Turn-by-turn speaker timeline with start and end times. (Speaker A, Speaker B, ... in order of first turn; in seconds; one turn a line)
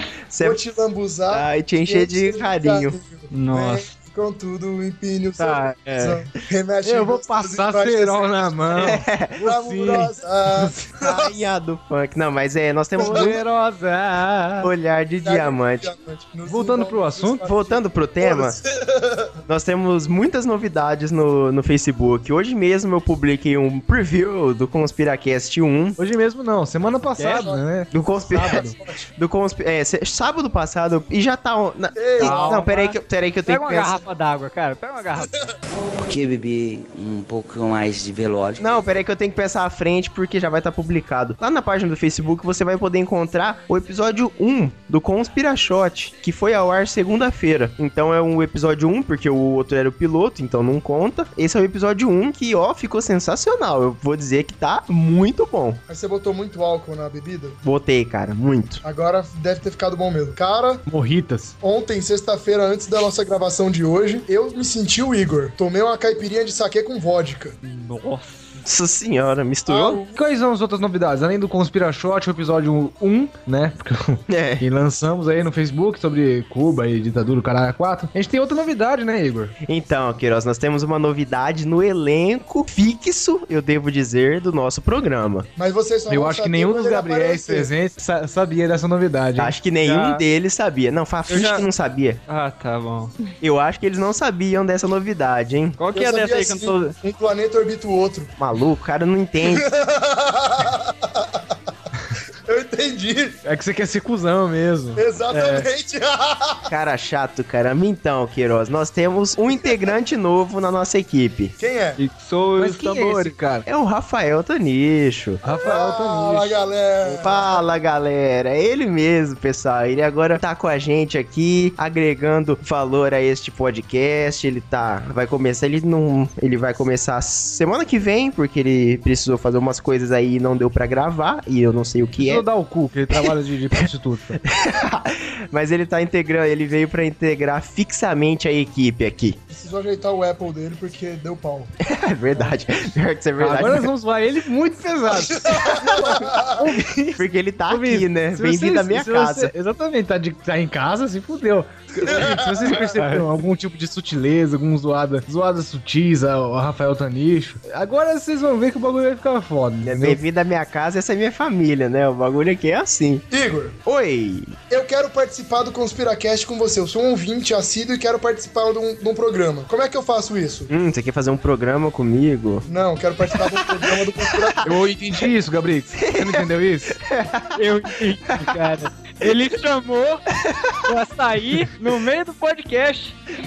Speaker A: 0.3-0.6
Speaker B: 0.4-11.3
Speaker A: 1.3-3.0
Speaker C: 3.3-3.9
Speaker A: 5.4-6.3
Speaker D: 6.8-10.8
Speaker A: 8.8-9.3
Speaker A: 11.0-13.4
Speaker D: 13.0-14.7
Speaker B: 13.0-13.3
Speaker A: 14.6-15.9
Speaker B: 15.2-19.3
Speaker D: 16.4-17.4
Speaker A: 17.4-18.6
Speaker A: 19.5-26.0
Speaker D: 26.0-28.7
Speaker C: 27.2-27.5
Speaker B: 27.4-27.6
Speaker A: 27.9-34.0
Speaker B: 28.3-29.1
Speaker B: 31.9-32.5
Speaker C: 32.2-35.5
Speaker E: 36.0-38.6
Speaker A: 38.6-55.8
Speaker B: 55.9-57.6
Speaker A: 57.6-58.8
Speaker B: 58.8-60.8
Speaker D: 60.9-61.5
Speaker B: 61.6-67.6
Speaker C: 67.6-68.6
Speaker A: 68.6-70.0
Speaker B: 69.7-70.2
Speaker D: 70.1-79.5
Speaker A: 74.3-74.6
Speaker A: 79.7-85.5
Speaker B: 85.5-87.7
Speaker D: 86.1-89.5
Speaker A: 89.4-92.2
Speaker C: 89.8-90.2
Speaker C: 91.3-91.7
Speaker C: 92.3-93.2
Speaker A: 93.4-95.8
Speaker C: 95.8-96.9
Speaker B: 95.9-98.3
Speaker A: 98.4-99.7
Speaker B: 99.4-101.4
Speaker B: 102.5-103.4
Speaker D: 103.4-105.0
Speaker B: 105.0-106.7
Speaker C: 105.3-105.7
Speaker A: 106.7-111.5
Speaker B: 111.6-112.0
Speaker C: 112.0-113.4
Speaker D: 112.6-113.7
Speaker A: 113.7-115.4
Speaker D: 115.4-116.5
Speaker B: 115.4-117.6
Speaker A: 117.0-132.4
Speaker D: 132.2-134.4
Speaker A: 134.4-139.4
Speaker B: 139.5-141.7
Speaker A: 141.8-143.9
Speaker D: 143.4-160.2
Speaker B: 145.3-146.7
Speaker A: 147.2-149.5
Speaker B: 152.0-152.8
Speaker C: 152.8-153.2
Speaker A: 159.8-163.2
Speaker B: 163.3-163.8
Speaker A: 163.8-164.6
Speaker B: 164.7-170.7
Speaker A: 170.7-172.7
Speaker B: 172.7-174.7
Speaker A: 173.3-174.6
Speaker D: 174.6-177.0
Speaker A: 175.9-177.6
Speaker C: 177.6-180.2
Speaker A: 178.3-178.6
Speaker A: 180.3-180.9
Speaker C: 180.8-183.2